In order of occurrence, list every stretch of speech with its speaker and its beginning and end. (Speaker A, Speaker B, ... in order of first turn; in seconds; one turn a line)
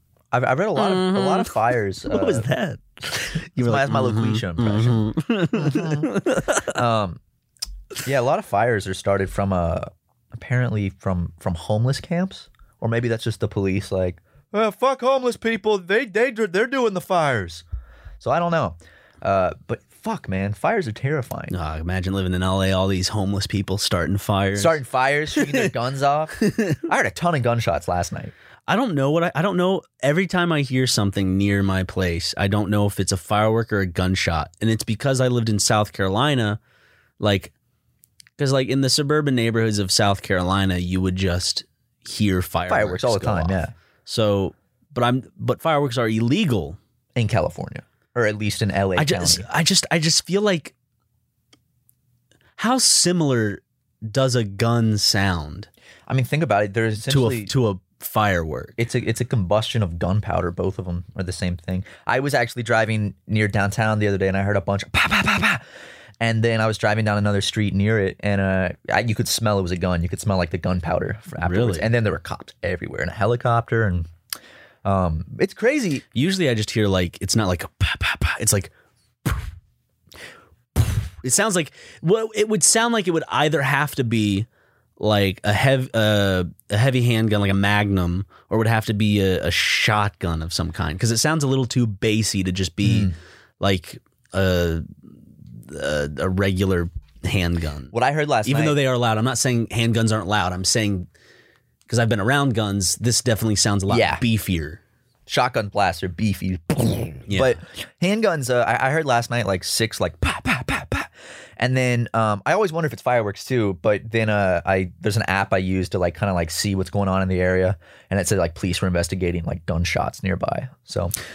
Speaker A: 0.3-2.5
Speaker B: 0.8-1.5
Speaker B: 2.1-6.8
Speaker A: 3.6-5.0
Speaker A: 5.5-7.2
Speaker A: 8.0-17.6
Speaker A: 18.2-21.5
Speaker B: 21.5-24.8
Speaker A: 24.5-28.3
Speaker B: 25.3-25.7
Speaker B: 26.4-26.8
Speaker B: 28.7-36.6
Speaker B: 37.2-37.5
Speaker B: 38.4-46.8
Speaker A: 42.7-43.7
Speaker A: 47.1-49.5
Speaker B: 49.0-50.7
Speaker B: 52.6-55.7
Speaker A: 56.1-57.5
Speaker B: 57.1-58.7
Speaker A: 58.8-65.6
Speaker A: 66.2-74.1
Speaker B: 71.4-71.9
Speaker A: 74.8-76.0
Speaker B: 76.1-78.7
Speaker B: 80.8-84.5
Speaker B: 85.0-94.8
Speaker A: 92.8-93.2
Speaker B: 95.6-97.9
Speaker A: 97.9-98.8
Speaker B: 98.4-101.1
Speaker B: 101.9-104.8
Speaker A: 103.9-104.2
Speaker A: 105.3-121.1
Speaker B: 107.3-107.6